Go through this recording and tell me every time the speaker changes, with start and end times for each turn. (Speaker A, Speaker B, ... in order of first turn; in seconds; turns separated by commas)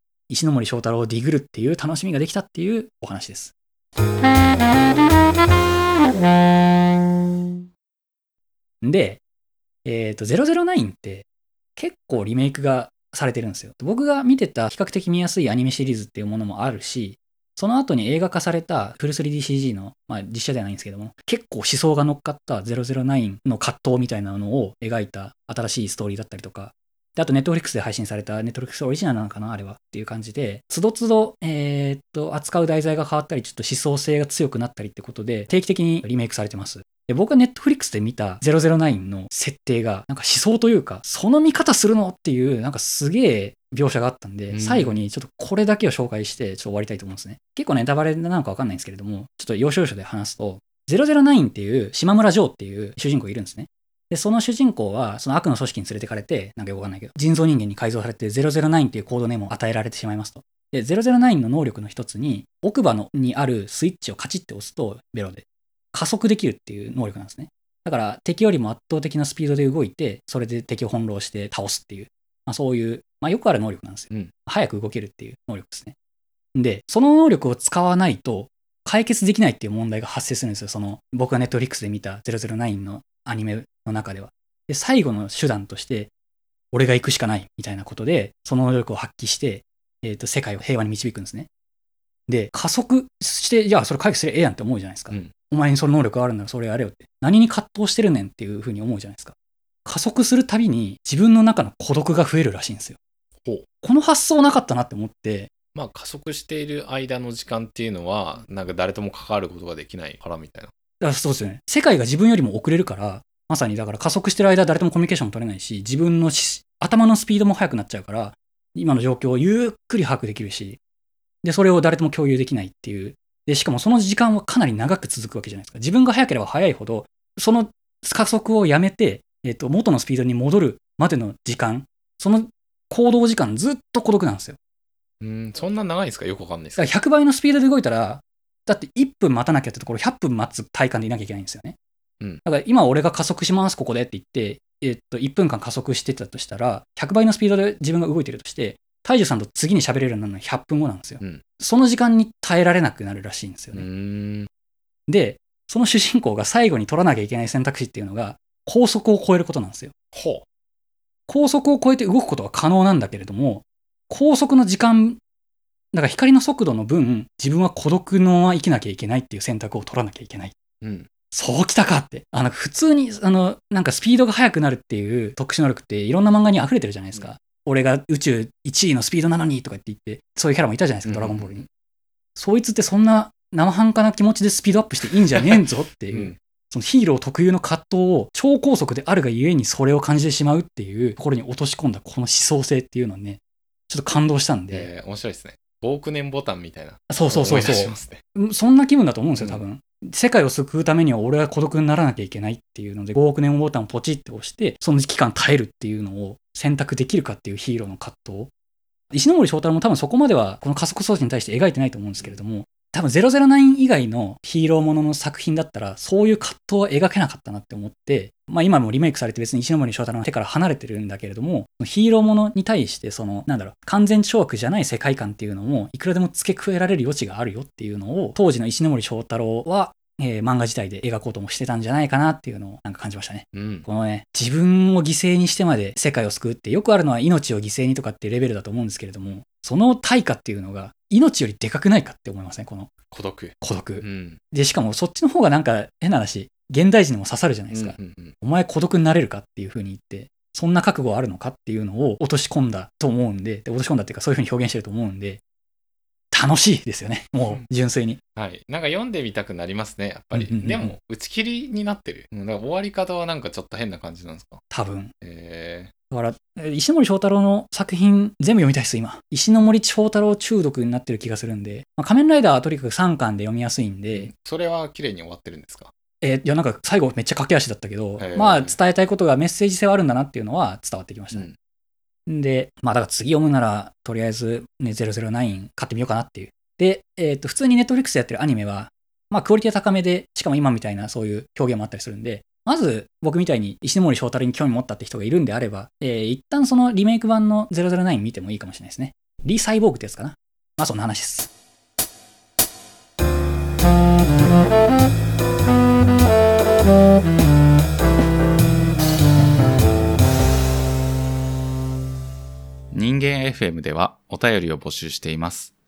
Speaker A: 0.3-3.5, Speaker A: 8.8-9.2, Speaker A: 9.8-75.9, Speaker B: 44.5-45.0, Speaker A: 76.5-86.1, Speaker A: 86.7-91.5, Speaker A: 92.3-103.0, Speaker A: 103.8-105.5, Speaker B: 105.7-110.7, Speaker A: 111.0-120.8, Speaker A: 121.4-134.6, Speaker B: 135.2-136.9, Speaker A: 136.8-141.8, Speaker A: 142.4-153.8, Speaker B: 153.7-154.5, Speaker A: 155.1-159.9, Speaker B: 160.1-160.4, Speaker A: 161.3-165.2, Speaker A: 165.9-170.5, Speaker B: 170.8-171.1, Speaker A: 171.3-181.7, Speaker B: 181.0-181.7, Speaker A: 182.3-194.9, Speaker B: 186.1-186.4, Speaker B: 194.7-198.2, Speaker A: 197.1-208.5, Speaker B: 199.4-199.6, Speaker A: 209.1-242.9, Speaker B: 233.5-233.9, Speaker B: 243.1-244.4, Speaker A: 243.6-255.4, Speaker B: 247.7-248.3, Speaker A: 256.3-258.2, Speaker B: 258.4-264.6, Speaker A: 260.3-260.9, Speaker A: 264.7-265.1, Speaker B: 265.2-265.9, Speaker A: 266.1-274.3, Speaker B: 274.1-275.9, Speaker A: 276.2-281.5, Speaker B: 278.2-278.8, Speaker A: 282.3-301.5, Speaker B: 312.9-315.7